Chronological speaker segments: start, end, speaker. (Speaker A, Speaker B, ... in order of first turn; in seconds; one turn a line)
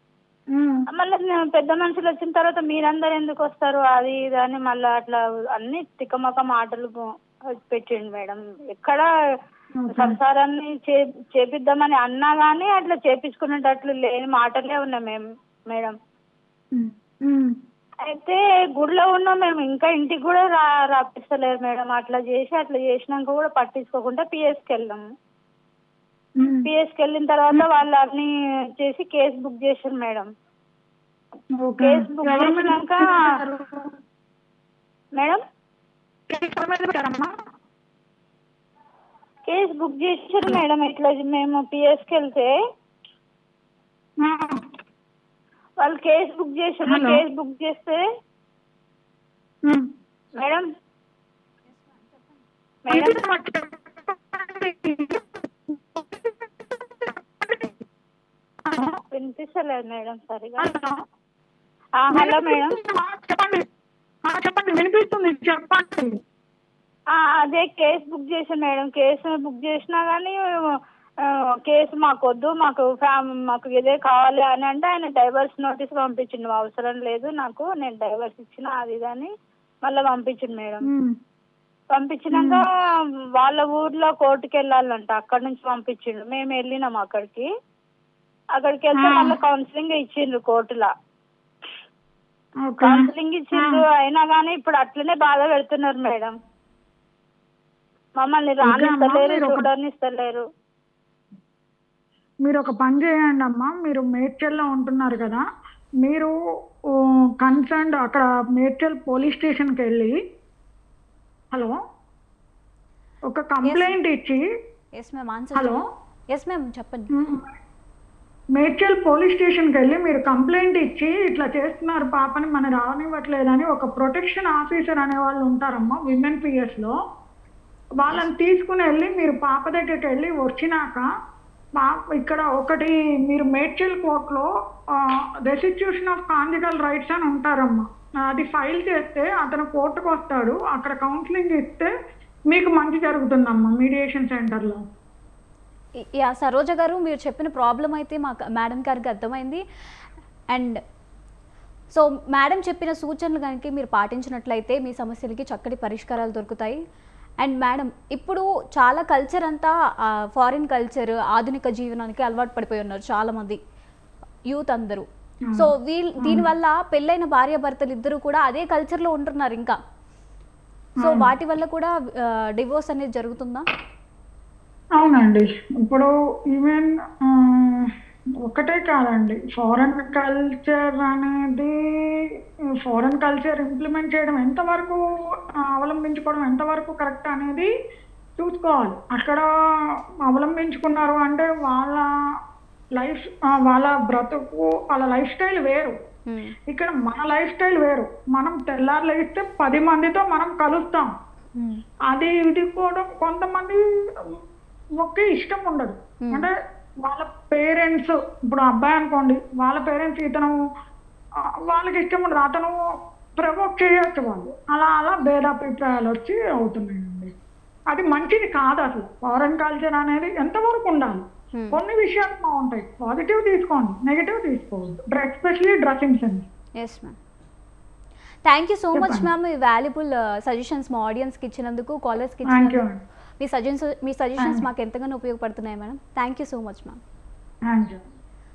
Speaker A: 0.5-0.8
Speaker B: 0.9-9.1
Speaker A: 9.8-10.2
Speaker B: 9.9-15.9
Speaker A: 16.7-17.6
Speaker B: 18.1-25.0
Speaker A: 26.4-26.7
Speaker B: 26.4-30.3
Speaker A: 31.6-33.9
Speaker B: 31.8-33.2
Speaker A: 36.3-37.4
Speaker B: 39.5-42.5
Speaker A: 44.2-44.6
Speaker B: 45.8-48.0
Speaker A: 46.9-47.2
Speaker A: 49.7-49.9
Speaker B: 50.4-50.7
Speaker B: 52.9-53.2
Speaker A: 52.9-56.5
Speaker A: 57.0-57.7
Speaker A: 58.7-59.0
Speaker B: 59.1-60.7
Speaker A: 60.6-61.0
Speaker B: 62.0-62.8
Speaker A: 62.1-63.6
Speaker A: 64.3-66.2
Speaker B: 67.1-79.3
Speaker B: 79.8-80.9
Speaker A: 80.8-81.2
Speaker B: 81.9-82.7
Speaker A: 82.3-82.6
Speaker B: 83.4-87.5
Speaker B: 88.5-90.9
Speaker A: 89.0-89.4
Speaker A: 92.6-93.8
Speaker B: 92.8-96.4
Speaker B: 98.2-100.5
Speaker A: 98.7-99.7
Speaker A: 102.4-105.4
Speaker A: 106.0-106.3
Speaker A: 106.9-110.2
Speaker A: 111.5-111.8
Speaker A: 113.3-114.4
Speaker C: 113.6-114.0
Speaker C: 115.0-115.8
Speaker A: 115.6-115.8
Speaker C: 116.3-117.1
Speaker A: 117.2-117.5
Speaker A: 118.5-127.0
Speaker A: 128.0-131.1
Speaker A: 131.8-141.9
Speaker A: 142.5-144.9
Speaker C: 146.0-149.6
Speaker C: 150.5-150.8
Speaker C: 151.9-156.8
Speaker C: 157.4-163.6
Speaker C: 164.5-169.8
Speaker A: 171.0-171.3
Speaker C: 171.0-173.7
Speaker A: 175.0-177.9
Speaker A: 178.4-185.0
Speaker A: 185.6-187.7
Speaker A: 188.4-189.5
Speaker A: 190.2-192.1
Speaker A: 193.0-196.0
Speaker C: 196.3-196.6
Speaker A: 196.7-201.1
Speaker A: 202.1-204.4
Speaker A: 205.0-206.5
Speaker C: 206.2-206.5
Speaker A: 207.0-210.6
Speaker A: 211.4-212.8
Speaker A: 213.4-217.3
Speaker A: 217.9-226.4
Speaker C: 226.8-227.2
Speaker C: 228.5-232.8
Speaker A: 228.9-229.3
Speaker A: 232.5-233.0
Speaker C: 233.4-237.0
Speaker A: 237.7-238.0